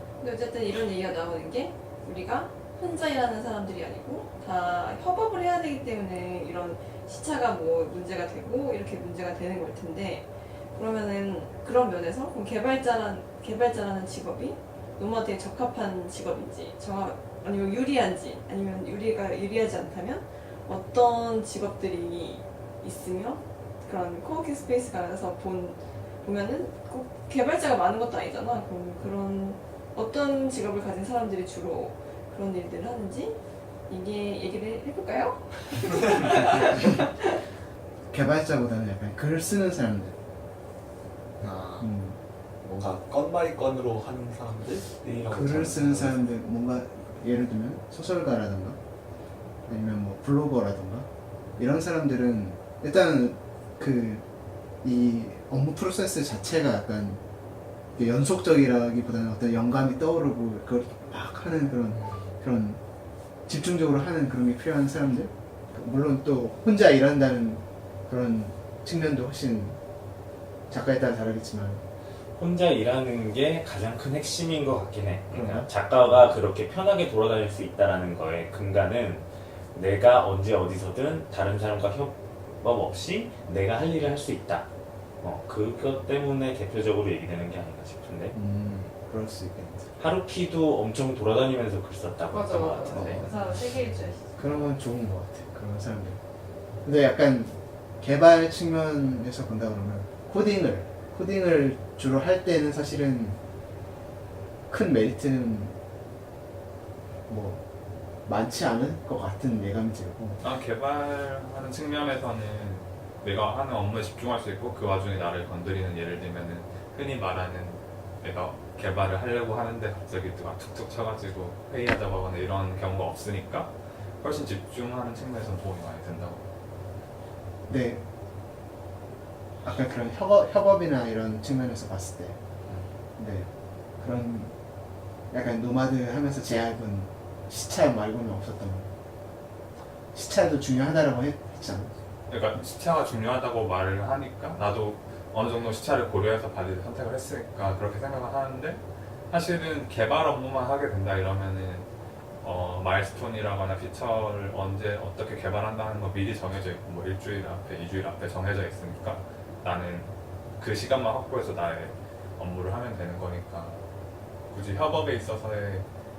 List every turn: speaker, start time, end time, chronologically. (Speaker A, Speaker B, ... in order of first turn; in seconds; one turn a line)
Speaker A: 0.2-37.4
Speaker B: 38.1-40.2
Speaker C: 41.4-41.9
Speaker B: 41.8-42.2
Speaker C: 42.6-46.2
Speaker B: 45.3-48.8
Speaker B: 49.7-54.2
Speaker B: 54.8-57.2
Speaker B: 58.0-62.8
Speaker C: 61.9-62.3
Speaker B: 63.5-69.8
Speaker B: 70.7-71.8
Speaker D: 72.4-84.7
Speaker B: 75.3-75.7
Speaker D: 85.2-88.3
Speaker B: 88.3-90.0
Speaker D: 90.0-93.3
Speaker A: 92.3-94.8
Speaker B: 92.8-93.3
Speaker B: 94.4-96.2
Speaker B: 96.8-103.4
Speaker B: 104.7-105.8
Speaker B: 107.3-107.6
Speaker B: 108.3-110.4
Speaker E: 110.4-126.5
Speaker B: 127.7-128.0
Speaker B: 129.6-132.4
Speaker B: 133.2-134.5
Speaker B: 135.3-138.9
Speaker B: 140.1-141.9
Speaker E: 142.3-151.9
Speaker E: 152.4-163.9
Speaker E: 164.5-165.9